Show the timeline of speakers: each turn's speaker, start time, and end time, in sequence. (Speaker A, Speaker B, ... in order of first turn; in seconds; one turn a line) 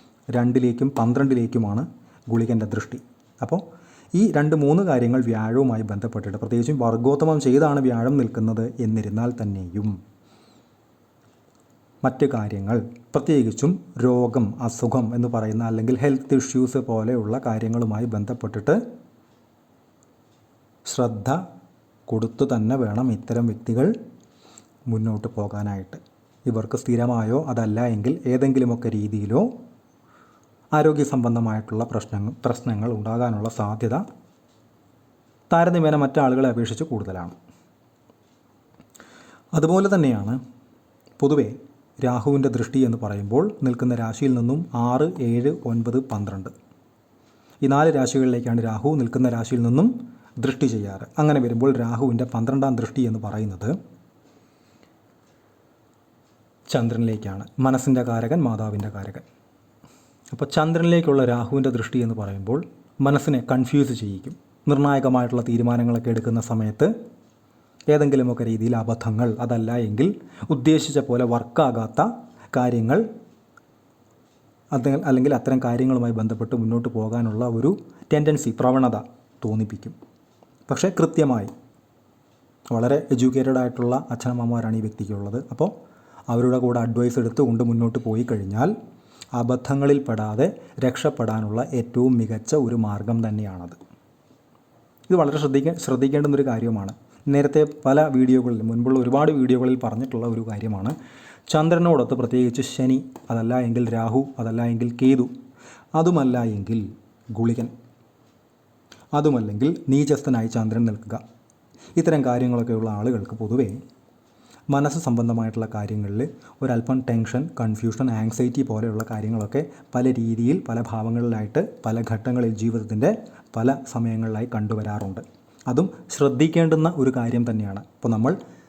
Speaker A: 0.3-3.6
Speaker A: 4.1-9.9
Speaker A: 12.0-18.8
Speaker A: 20.9-21.4
Speaker A: 22.1-23.9
Speaker A: 24.9-29.5
Speaker A: 30.7-34.0
Speaker A: 35.5-37.3
Speaker A: 39.5-40.4
Speaker A: 41.2-46.5
Speaker A: 47.6-53.8
Speaker A: 56.7-59.2
Speaker A: 60.3-66.9
Speaker A: 67.9-73.0
Speaker A: 74.7-80.0
Speaker A: 80.7-81.5
Speaker A: 82.7-85.7
Speaker A: 86.3-88.7
Speaker A: 89.3-93.8
Speaker A: 95.1-101.0
Speaker A: 101.5-105.3
Speaker A: 106.0-107.7
Speaker A: 109.1-111.2
Speaker A: 112.0-113.8
Speaker A: 114.7-128.4